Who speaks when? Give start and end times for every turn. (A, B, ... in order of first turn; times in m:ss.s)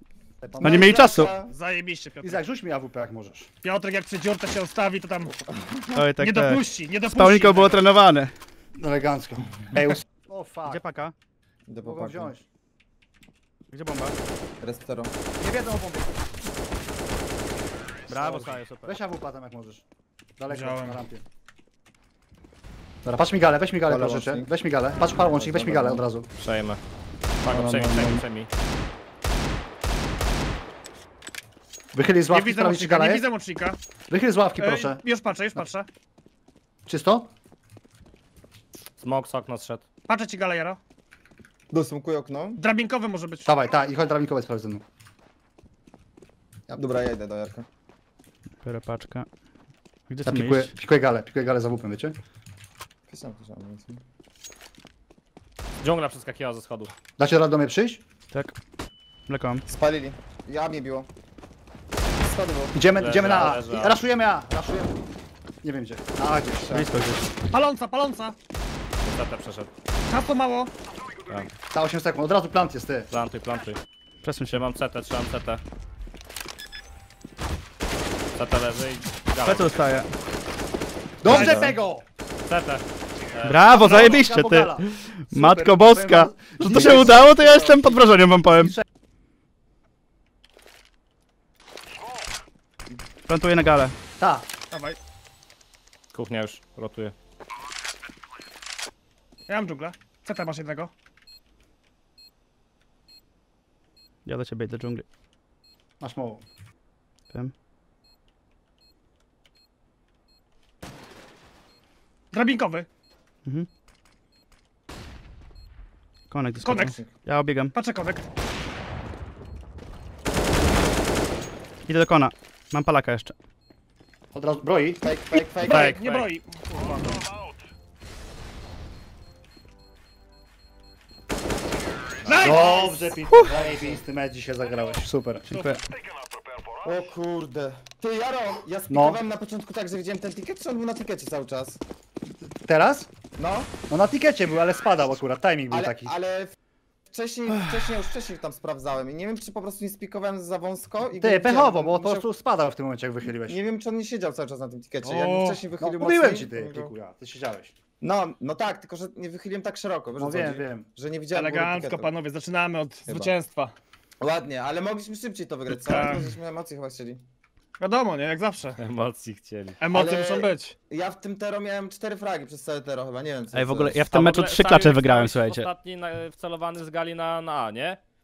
0:00.4-0:01.2 A
0:00.6-0:01.3 B
0:00.6-0:01.5 C
0:01.4-0:02.4 D
0:02.2-0:03.5 A
0:03.6-0:05.3 D
0:05.5-0:06.0 C
0:06.0-0:08.3 B
0:06.2-0:07.9 D
0:08.8-0:10.8 A
0:10.6-0:11.1 B
0:11.7-0:12.3 C
0:11.8-0:12.4 A
0:13.7-0:14.2 B
0:14.6-0:15.1 C
0:15.4-0:16.2 A
0:18.1-0:19.0 B
0:18.1-0:19.8 A
0:20.4-0:21.2 A
0:20.5-0:21.0 D
0:23.0-0:26.3 A
0:23.8-0:24.5 C
0:25.4-0:26.0 C
0:26.4-0:26.8 E
0:27.4-0:28.5 E
0:27.4-0:28.2 C
0:31.9-0:33.2 A
0:32.3-0:33.8 D
0:34.1-0:35.0 A
0:34.6-0:35.9 D
0:36.8-0:37.3 A
0:39.0-0:39.8 E
0:40.1-0:40.8 D
0:41.7-0:42.6 C
0:42.6-0:43.6 D
0:43.4-0:44.8 A
0:46.7-0:47.6 C
0:48.6-0:49.2 B
0:50.1-0:50.7 B
0:50.2-0:52.2 A
0:53.1-0:54.0 C
0:55.8-0:56.9 E
0:57.2-0:58.0 A
0:59.3-0:59.6 B
0:59.7-1:01.1 C
1:02.2-1:02.7 C
1:02.7-1:04.9 A
1:02.9-1:04.0 E
1:05.6-1:06.7 A
1:06.5-1:07.0 C
1:06.7-1:07.3 B
1:07.5-1:08.4 D
1:09.0-1:09.7 E
1:10.0-1:10.7 D
1:11.7-1:13.1 A
1:13.1-1:13.8 E
1:14.2-1:14.6 B
1:14.5-1:15.6 E
1:18.3-1:19.7 E
1:19.4-1:20.1 B
1:21.2-1:22.0 A
1:21.2-1:21.8 E
1:22.4-1:24.2 E
1:23.4-1:28.8 B
1:23.7-1:28.8 A
1:33.3-1:33.9 B
1:34.2-1:34.5 A
1:34.7-1:35.0 D
1:36.1-1:37.1 E
1:39.5-1:40.9 D
1:44.2-1:45.0 B
1:46.0-1:46.4 A
1:52.3-1:52.9 D
1:56.3-1:57.7 B
1:56.6-1:57.0 D
1:56.8-1:57.1 C
1:57.7-1:58.2 D
2:01.9-2:03.3 B
2:04.3-2:05.1 A
2:05.0-2:06.0 C
2:05.6-2:07.4 D
2:12.2-2:12.8 E
2:12.2-2:13.1 D
2:12.4-2:15.4 A
2:13.7-2:14.0 C
2:15.5-2:15.8 B
2:15.5-2:15.8 D
2:16.8-2:21.8 C
2:18.9-2:19.2 A
2:22.6-2:23.1 A
2:23.4-2:23.7 C
2:23.9-2:26.2 A
2:25.7-2:26.5 C
2:27.1-2:32.2 C
2:31.1-2:33.6 A
2:33.2-2:36.9 C
2:35.0-2:35.7 D
2:35.8-2:37.7 A
2:38.0-2:42.1 C
2:40.2-2:40.9 A
2:41.3-2:43.7 D
2:43.1-2:43.3 C
2:44.2-2:47.2 C
2:45.7-2:46.4 D
2:47.8-2:48.8 D
2:48.8-2:49.8 E
2:49.8-2:50.7 D
2:49.9-2:54.1 C
2:53.5-2:55.7 B
2:54.1-2:58.0 E